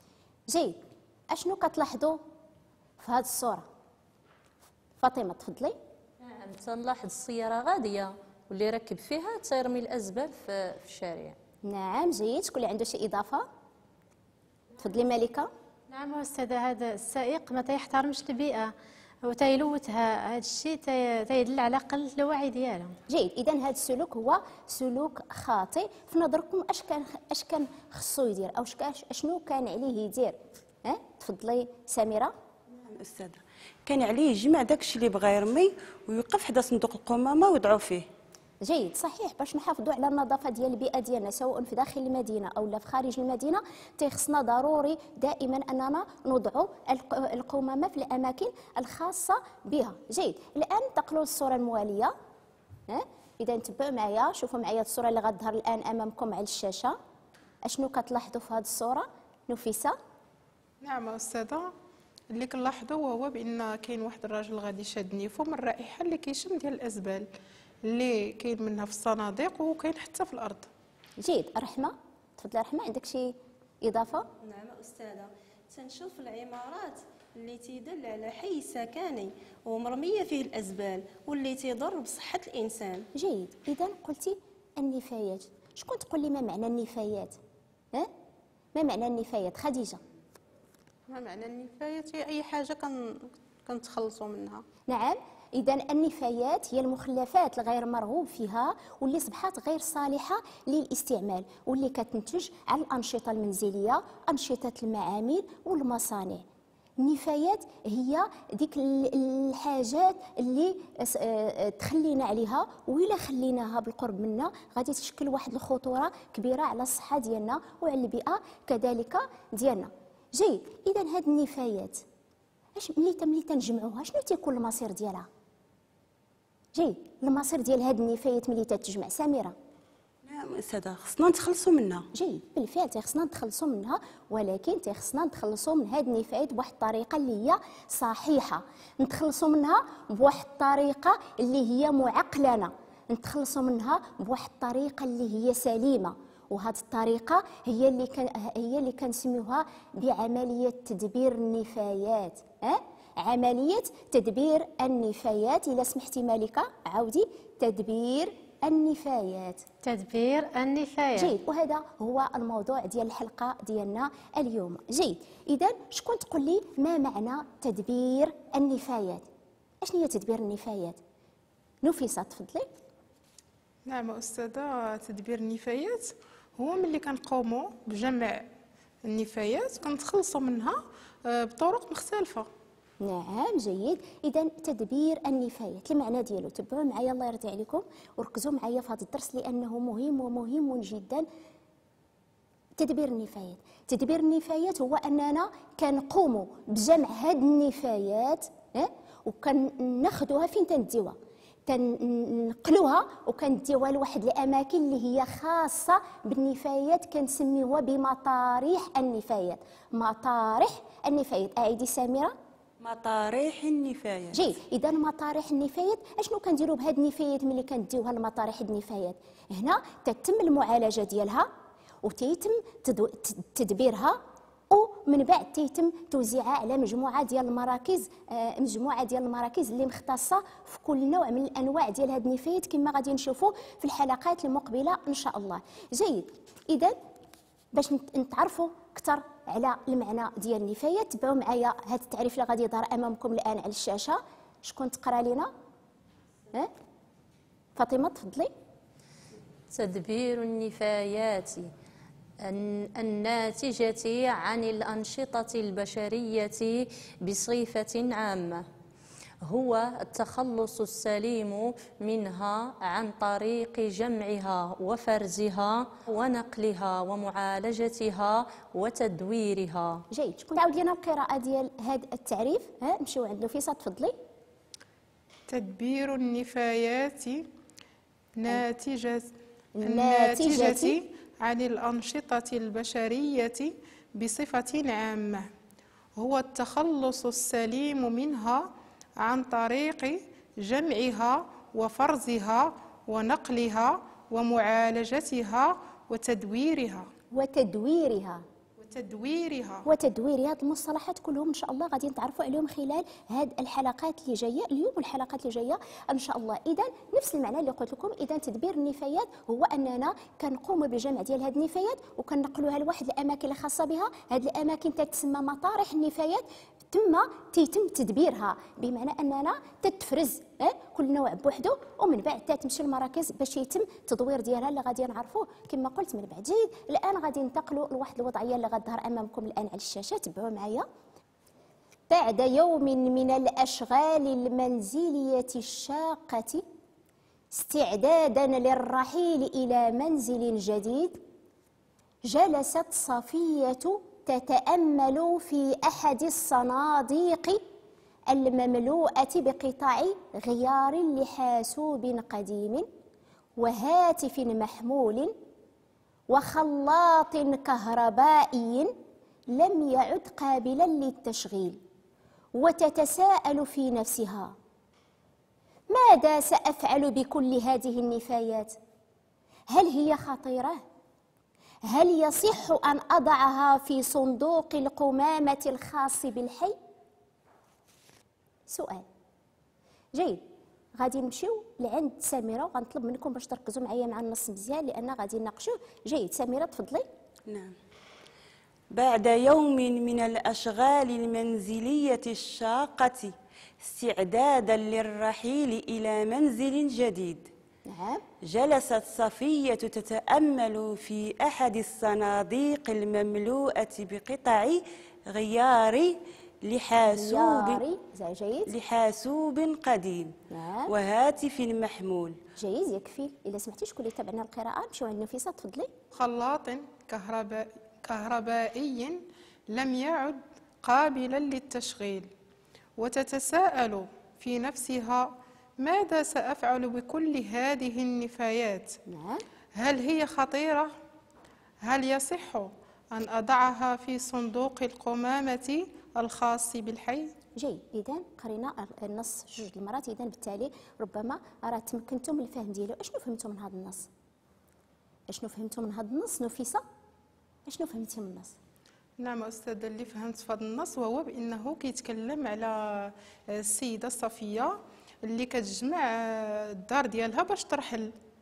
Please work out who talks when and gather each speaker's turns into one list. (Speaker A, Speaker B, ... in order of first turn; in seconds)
Speaker A: 0.5-2.2, 3.0-3.7, 5.0-5.8, 11.6-13.4, 14.8-15.5, 23.1-32.3, 38.6-52.1, 52.9-57.0, 57.6-60.0, 71.2-74.3, 83.1-87.4, 88.7-90.0, 94.9-106.4, 107.0-122.0, 122.8-125.3, 126.7-129.5, 132.1-159.6, 161.1-169.2, 169.8-171.0, 171.8-172.7, 183.0-191.2, 192.8-212.3, 214.3-221.5, 222.0-224.2, 224.7-236.9, 237.7-245.5, 247.8-248.5, 270.1-274.1, 279.8-281.0, 297.3-298.4, 299.8-330.9, 332.1-336.6, 337.5-341.2, 342.2-347.6, 348.3-352.9, 353.6-355.3, 356.3-358.9, 359.5-361.8, 362.6-364.5, 365.9-368.8, 369.7-370.8, 371.9-376.8, 378.7-379.0, 380.1-380.4, 381.0-387.1, 397.9-398.2, 407.1-408.7, 410.5-410.9, 412.6-415.9, 429.1-429.4, 437.6-444.1, 445.3-446.8, 447.6-448.6
Speaker B: 6.2-11.4, 249.7-251.7, 252.4-258.6, 259.4-270.0
Speaker C: 15.9-18.7, 19.2-22.9, 159.8-161.3
Speaker D: 32.8-38.1, 130.2-132.1, 212.8-214.4, 387.5-387.7, 388.9-397.5, 398.4-407.8, 408.7-410.3, 410.9-412.4
Speaker E: 60.8-61.7, 62.3-67.3, 67.8-70.7, 91.1-94.6, 173.8-178.4, 179.0-182.5, 275.5-277.5, 278.4-279.3, 279.8-285.5, 286.2-288.7, 289.2-297.1, 298.8-299.9, 416.1-422.3, 423.0-429.0, 429.7-430.9, 431.8-437.3, 449.2-458.1
Speaker F: 74.4-83.1